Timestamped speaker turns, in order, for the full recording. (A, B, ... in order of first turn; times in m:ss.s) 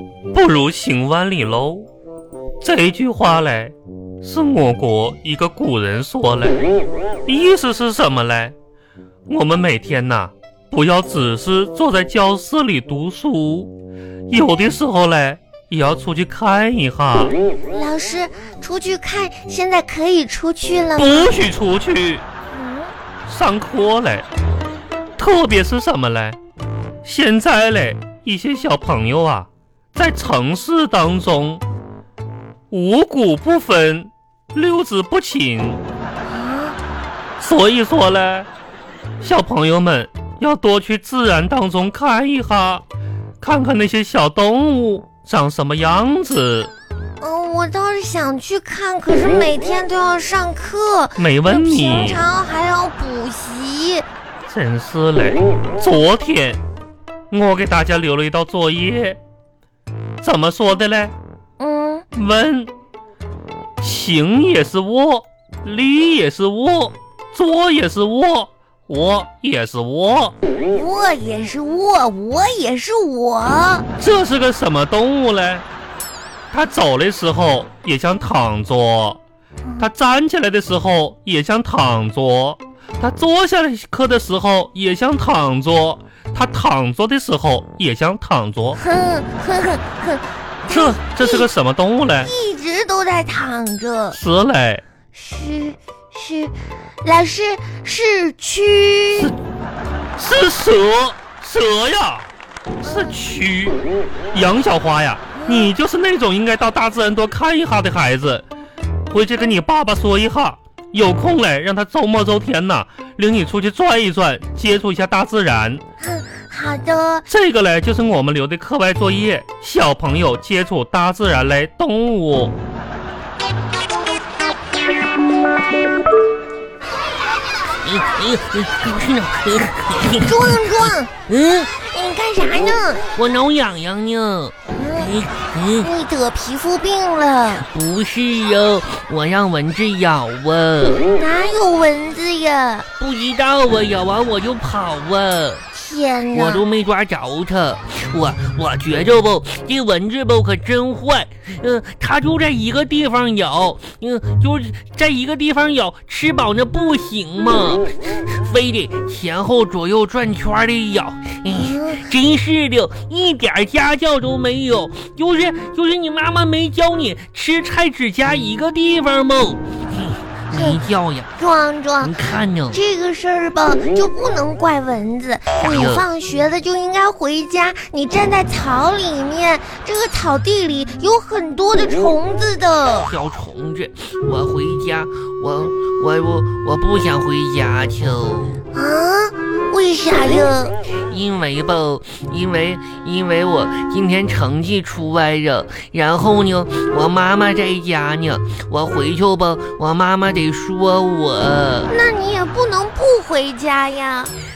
0:00.3-0:01.9 A
0:02.6-0:06.6 A
0:07.2-0:08.6 A
0:09.3-0:13.7 A
0:14.3-0:17.4 A
0:17.7-0:21.4 B
0:21.0-0:22.2 A
0:22.5-0:22.9 B
0:23.3-0:24.2 A
0:25.2-0:26.4 A
0:27.0-0:31.6 A
0:32.7-0:35.8 A
0:36.3-0:36.8 B
0:37.4-0:38.5 A
0:39.2-0:42.8 A
0:43.4-0:46.7 A
0:47.2-0:54.0 B
0:51.2-0:52.2 A
0:54.5-0:56.6 A
0:57.3-0:59.2 A
1:00.2-1:01.1 A
1:01.6-1:02.0 B
1:02.1-1:02.7 A
1:03.8-1:10.3 A
1:10.7-1:13.9 B
1:14.0-1:15.6 A
1:16.5-1:19.2 A
1:19.8-1:28.8 A
1:28.8-1:31.5 B
1:30.7-1:32.3 A
1:32.2-1:34.2 B
1:34.1-1:34.8 A
1:35.1-1:39.3 B
1:40.2-1:42.3 A
1:42.8-1:43.8 A
1:42.8-1:43.2 B
1:44.3-1:48.4 A
1:45.3-1:45.7 B
1:49.1-1:55.8 A
1:56.0-1:57.2 B
1:57.3-2:02.6 A
2:07.8-2:11.8 C
2:10.2-2:11.1 B
2:11.8-2:13.0 B
2:13.2-2:15.9 C
2:14.7-2:15.2 B
2:15.8-2:17.7 B
2:17.6-2:21.1 C
2:21.1-2:22.9 B
2:23.0-2:25.6 C
2:25.7-2:26.6 B
2:26.3-2:49.6 C
2:35.6-2:36.0 A
2:41.5-2:42.1 B
2:50.5-2:51.3 C
2:50.5-2:50.8 B
2:51.4-3:03.1 B
2:52.0-2:52.8 C
2:55.6-2:56.0 C
3:03.1-3:08.6 C
3:08.7-3:10.7 B
3:11.1-3:21.9 C
3:21.9-3:24.3 B